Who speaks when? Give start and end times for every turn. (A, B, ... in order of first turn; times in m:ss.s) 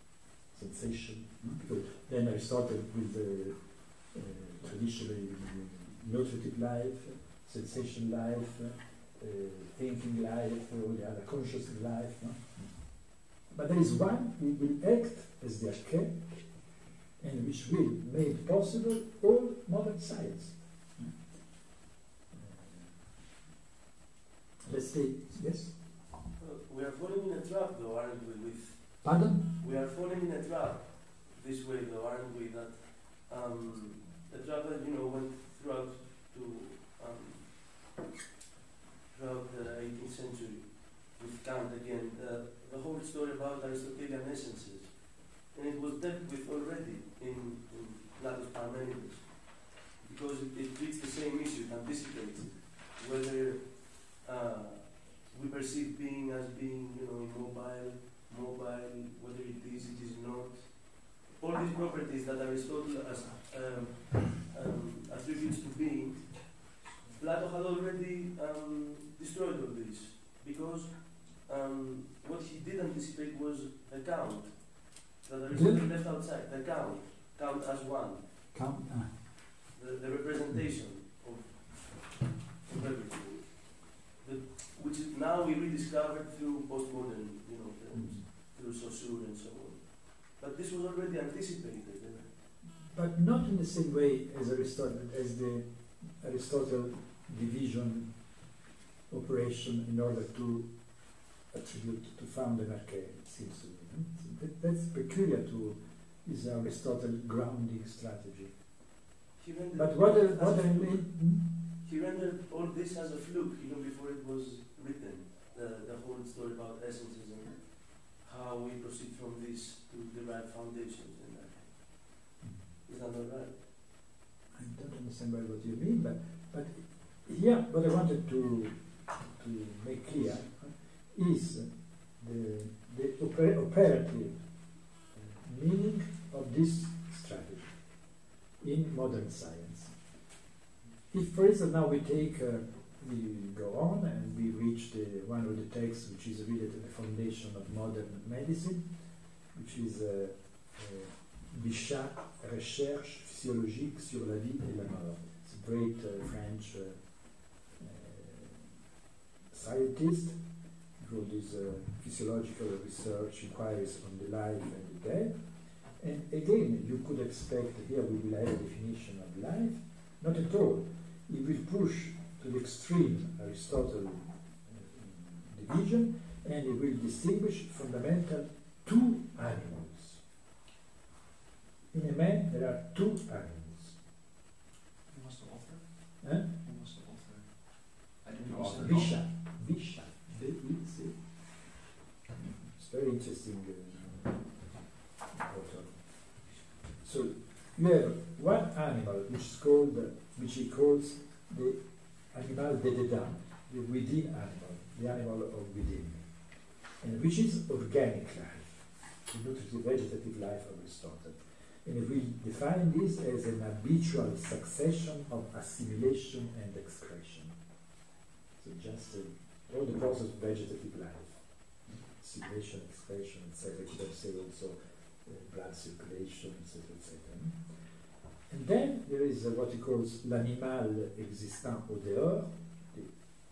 0:00.5-0:12.8 A
0:13.5-0:16.4 A
0:17.2-0:21.1 A
0:22.3-0:22.9 A
0:24.6-0:25.8 A
0:26.4-0:37.6 B
0:29.0-0:29.5 A
0:39.1-1:18.3 B
1:15.5-1:15.8 A
1:18.5-1:19.2 A
1:19.7-1:32.3 B
1:32.9-1:38.3 A
1:39.1-1:48.5 A
1:49.4-2:02.3 B
1:49.7-1:51.5 A
2:02.8-2:03.6 B
2:04.5-2:14.4 A
2:15.1-2:17.8 A
2:18.6-2:19.9 A
2:21.1-2:28.8 A
2:29.5-2:37.1 A
2:37.7-2:38.7 A
2:39.5-2:40.4 A
2:41.0-2:45.3 A
2:46.0-3:00.2 A
3:01.9-3:04.0 A
3:05.1-3:09.1 C
3:06.2-3:06.5 A
3:08.5-3:11.2 A
3:12.7-3:14.7 A
3:15.3-3:16.3 A
3:17.0-3:21.8 A
3:22.3-3:26.2 A
3:27.0-3:37.5 A
3:38.6-3:41.4 A
3:42.1-3:47.6 A
3:48.5-3:53.1 A